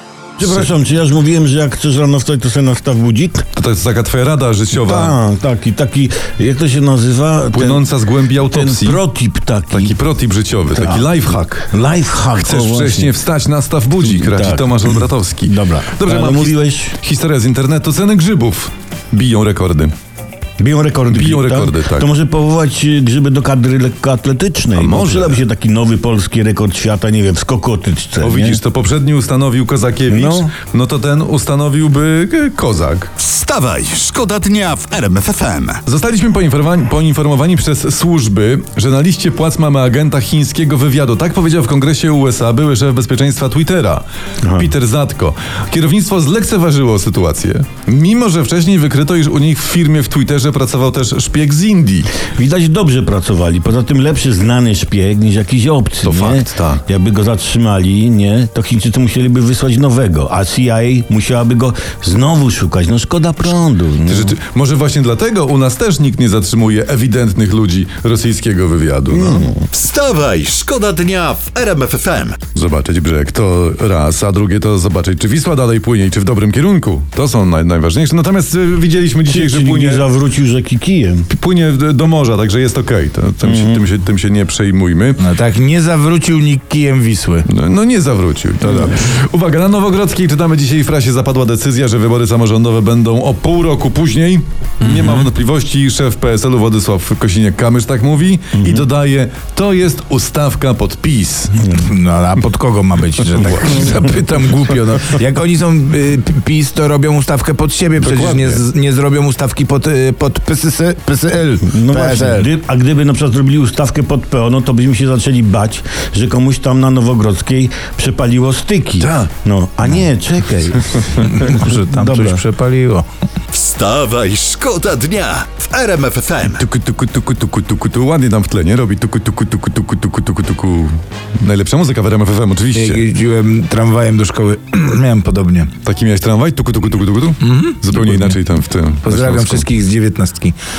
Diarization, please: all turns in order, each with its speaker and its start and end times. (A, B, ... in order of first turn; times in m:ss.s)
0:00.4-0:03.4 A
0:03.5-0:05.2 B
0:04.7-0:10.0 A
0:07.5-0:09.0 B
0:09.7-0:11.7 B
0:10.7-0:11.0 A
0:11.7-0:13.2 A
0:12.4-0:19.9 B
0:14.0-0:17.0 A
0:20.6-0:28.6 A
0:21.1-0:22.1 B
0:24.7-0:25.4 B
0:28.2-0:33.1 B
0:30.1-0:30.5 A
0:33.2-0:35.8 C
0:35.8-0:44.0 B
0:44.4-0:44.7 A
0:44.5-0:52.2 B
0:52.2-1:04.3 A
0:56.0-0:56.8 B
1:04.1-1:09.5 B
1:09.1-1:09.6 A
1:09.7-1:12.4 C
1:12.5-1:20.0 B
1:19.2-1:21.3 A
1:21.3-1:25.2 B
1:23.4-1:23.8 A
1:25.2-1:27.5 D
1:27.5-1:41.7 B
1:38.5-1:38.9 A
1:41.6-1:52.5 D
1:43.4-1:44.2 B
1:48.0-1:48.6 B
1:51.6-2:02.4 A
1:59.0-1:59.3 B
2:01.1-2:03.0 D
2:03.5-2:06.6 C
2:06.4-2:13.0 B
2:12.7-2:15.7 D
2:15.8-2:19.6 B
2:17.4-2:18.4 D
2:19.0-2:20.6 D